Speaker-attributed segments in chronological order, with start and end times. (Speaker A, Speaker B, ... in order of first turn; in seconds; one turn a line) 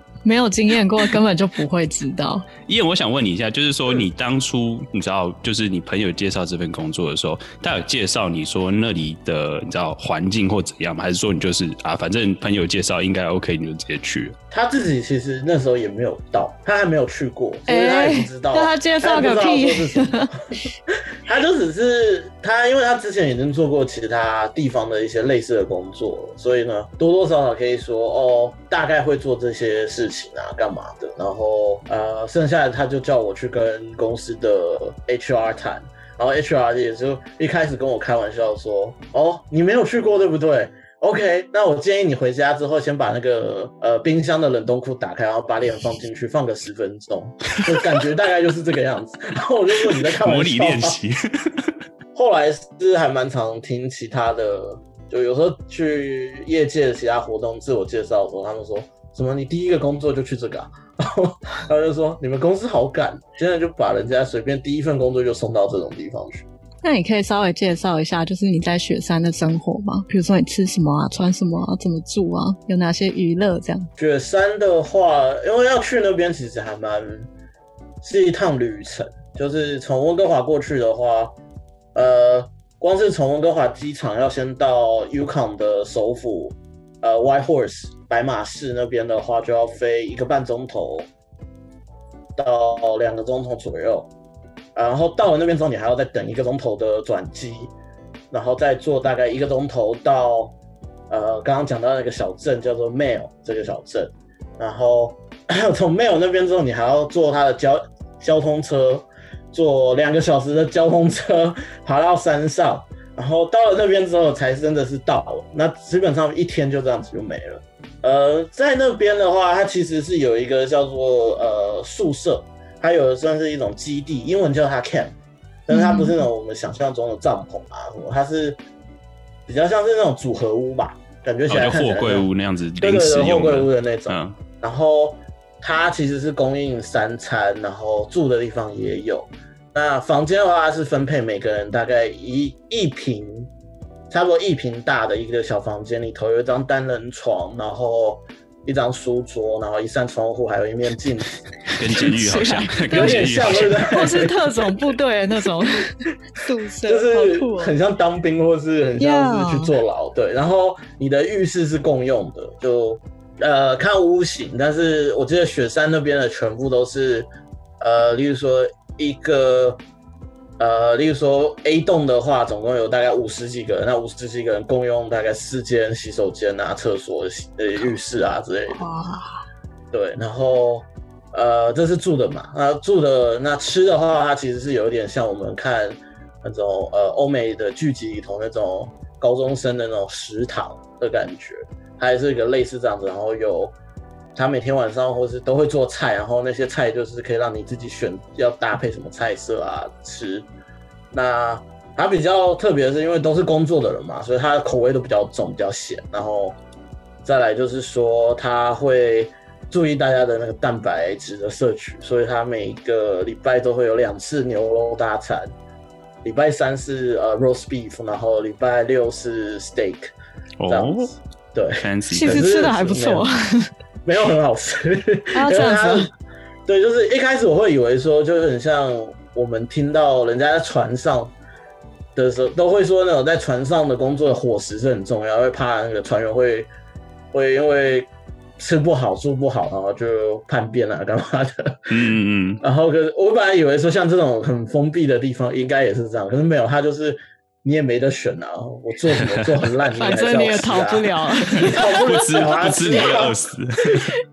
Speaker A: 0.2-2.5
Speaker B: 2.6-14.3
Speaker C: 14.5-20.3
Speaker A: 17.7-20.3
Speaker C: 21.2-51.0
Speaker B: 49.8-51.8
Speaker C: 52.1-66.5
Speaker A: 66.8-73.9
Speaker C: 74.0-77.3
Speaker C: 78.0-81.3
Speaker C: 82.0-91.1
Speaker C: 92.4-94.1
Speaker C: 94.8-97.7
Speaker C: 98.3-100.5
Speaker C: 101.1-125.2
Speaker C: 125.7-128.6
Speaker A: 125.7-126.2
Speaker C: 129.5-132.3
Speaker B: 131.5-134.4
Speaker C: 132.8-143.5
Speaker C: 144.1-151.4
Speaker B: 151.7-154.2
Speaker A: 152.0-157.7
Speaker C: 152.9-154.8
Speaker C: 156.8-167.3
Speaker A: 159.0-159.7
Speaker C: 167.8-169.8
Speaker C: 170.6-178.8
Speaker A: 178.8-179.4
Speaker C: 179.9-193.8
Speaker C: 194.3-200.5
Speaker C: 201.1-206.6
Speaker C: 207.2-215.5
Speaker C: 216.2-220.1
Speaker B: 220.6-221.1
Speaker C: 220.7-223.3
Speaker B: 221.8-222.5
Speaker A: 222.1-223.7
Speaker C: 224.1-226.1
Speaker A: 225.3-226.1
Speaker C: 226.7-231.3
Speaker C: 232.2-236.7
Speaker C: 237.3-241.9
Speaker B: 241.9-242.6
Speaker C: 242.6-253.4
Speaker B: 249.1-249.4
Speaker A: 249.9-251.9
Speaker B: 251.6-254.1